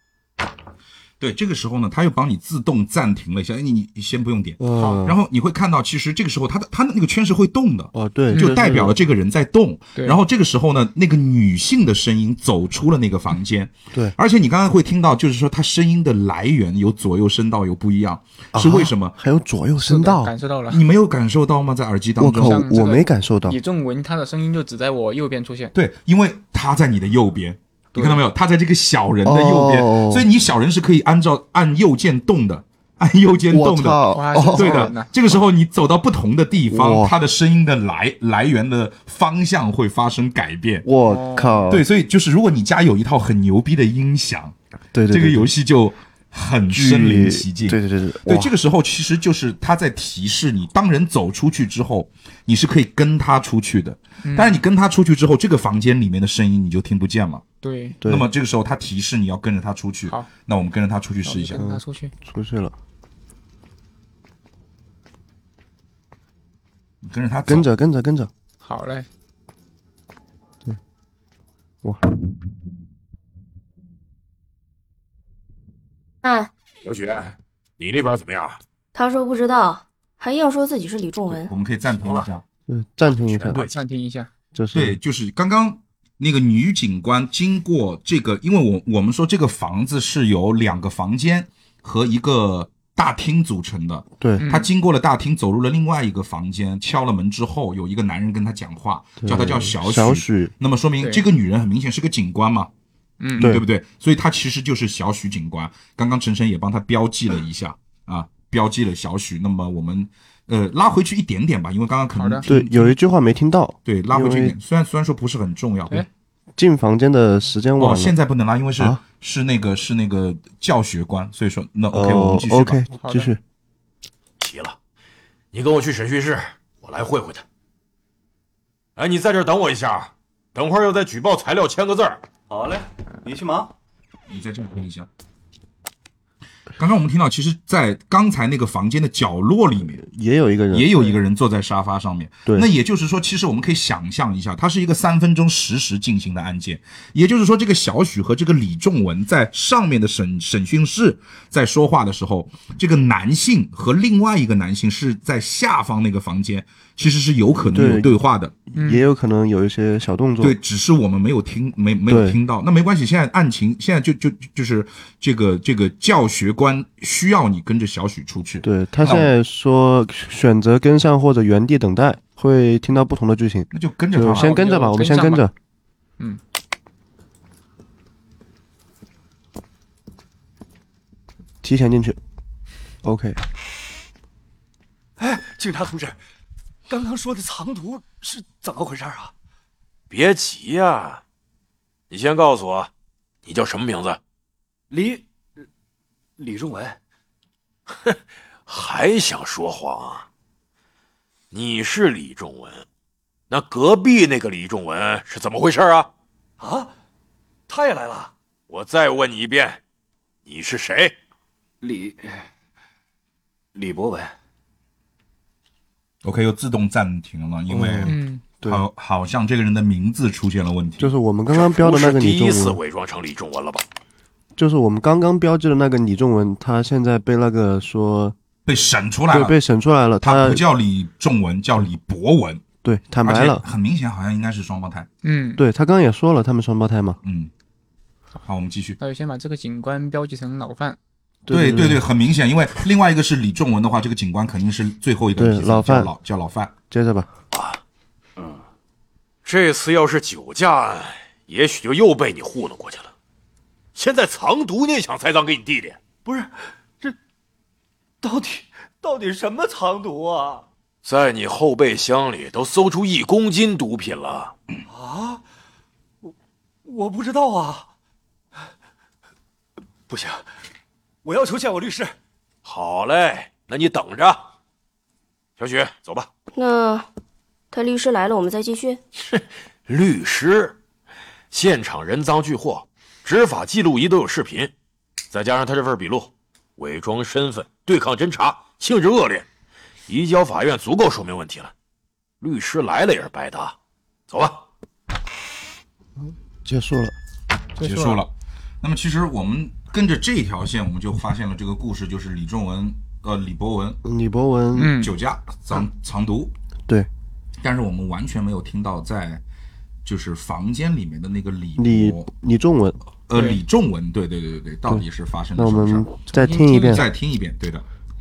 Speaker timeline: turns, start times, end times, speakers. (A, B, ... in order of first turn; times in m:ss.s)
0:01.2-0:19.1 A
0:04.6-0:05.2 B
0:07.9-0:09.0 B
0:08.3-0:08.8 C
0:18.5-0:20.3 B
0:19.8-0:20.8 C
0:20.7-0:22.6 A
0:22.2-0:23.6 B
0:22.3-0:25.7 C
0:25.7-0:40.9 A
0:27.9-0:28.2 C
0:29.2-0:30.3 B
0:33.5-0:34.9 B
0:34.1-0:35.1 C
0:36.7-0:37.1 B
0:40.8-0:41.8 B
0:41.0-0:41.7 C
0:41.7-0:44.5 A
0:44.9-0:45.5 B
0:45.1-0:57.4 A
0:46.7-0:48.6 B
0:54.2-0:54.6 C
0:57.6-0:58.0 C
0:58.0-0:58.3 B
0:58.0-1:01.6 A
1:01.2-1:02.1 C
1:01.5-1:02.7 B
1:07.0-1:07.7 A
1:07.5-1:08.3 B
1:08.6-1:09.1 C
1:16.2-1:16.5 D
1:16.8-1:18.6 E
1:18.9-1:21.5 D
1:21.3-1:22.4 A
1:22.7-1:23.6 B
1:23.4-1:24.3 C
1:23.4-1:23.8 E
1:24.5-1:25.0 B
1:24.7-1:42.7 A
1:34.4-1:34.7 C
1:39.2-1:40.5 B
1:41.0-1:41.2 C
1:43.2-1:43.5 C
1:43.4-1:53.0 A
1:43.4-1:43.6 B
1:52.1-1:52.5 C
1:52.4-1:54.6 B
1:53.8-1:56.0 A
1:56.6-1:58.2 B
1:57.8-2:02.8 A
2:01.9-2:03.4 B
2:03.0-2:03.3 C
2:04.4-2:04.8 E
2:05.5-2:07.4 E
2:09.0-2:12.2 E
2:12.5-2:13.7 F
2:14.3-2:15.1 A
2:16.8-2:20.0 A
2:19.9-2:21.1 B
2:20.7-2:38.6 A
2:37.6-2:38.2 B
2:38.7-2:40.6 B
2:38.7-2:39.0 C
2:40.4-2:49.3 A
2:42.1-2:42.4 B
2:48.6-2:55.5 B
2:53.7-2:54.6 A
2:54.2-2:55.4 C
3:01.6-3:02.2 B
3:03.0-3:03.4 B
3:05.2-3:06.2 F
3:06.9-3:09.3 F
3:10.1-3:11.2 E
3:12.1-3:12.9 E
3:13.4-3:14.2 E
3:14.9-3:15.2 F
3:16.4-3:17.0 F
3:18.6-3:20.3 E
3:21.5-3:22.8 E
3:23.5-3:26.1 E
3:26.6-3:26.9 F
3:27.7-3:28.3 F
3:28.7-3:29.8 E
3:30.4-3:31.1 E
3:31.8-3:32.4 F
3:33.7-3:34.3 F
3:36.2-3:41.1 A
3:37.7-3:38.8 B
3:38.0-3:38.4 C
3:41.0-3:42.8 B
3:41.5-3:43.8 E
3:44.6-3:48.4 B
3:48.6-3:49.6 A
3:49.3-3:50.6 B
3:50.2-3:52.6 A
3:52.8-3:53.6 B
3:53.2-3:55.1 A
3:55.2-3:55.6 C
3:55.6-3:57.2 B
3:57.2-3:57.5 A
3:58.4-3:59.0 A
3:59.0-4:01.0 C
4:01.5-4:02.0 B
4:01.5-4:06.7 A
4:05.4-4:06.1 B
4:06.9-4:07.3 B
4:07.5-4:07.8 E
4:08.4-4:08.6 F
4:09.4-4:13.1 E
4:13.9-4:16.0 E
4:16.2-4:17.2 F
4:18.2-4:20.6 F
4:21.0-4:24.5 E
4:24.9-4:25.4 F
4:26.8-4:27.9 F
4:30.1-4:30.5 F
4:31.2-4:32.1 F
4:32.6-4:34.5 E
4:35.6-4:36.3 E
4:36.5-4:37.1 D
4:37.7-4:39.0 D
4:39.3-4:40.8 E
4:41.5-4:44.7 E
4:45.3-4:49.4 E
4:50.1-4:51.7 E
4:52.4-4:53.7 E
4:54.3-4:54.6 E
4:56.6-4:57.1 B
4:57.8-4:58.2 C
4:57.8-4:58.3 A
4:58.8-5:04.0 A
5:04.0-5:05.0 B
5:04.7-5:05.1 C
5:05.0-5:06.5 A
5:07.6-5:09.4 A
5:10.0-5:12.3 A
5:11.8-5:13.0 B
5:13.3-5:17.8 A
5:13.3-5:13.6 C
5:14.9-5:17.0 B
5:16.3-5:17.1 C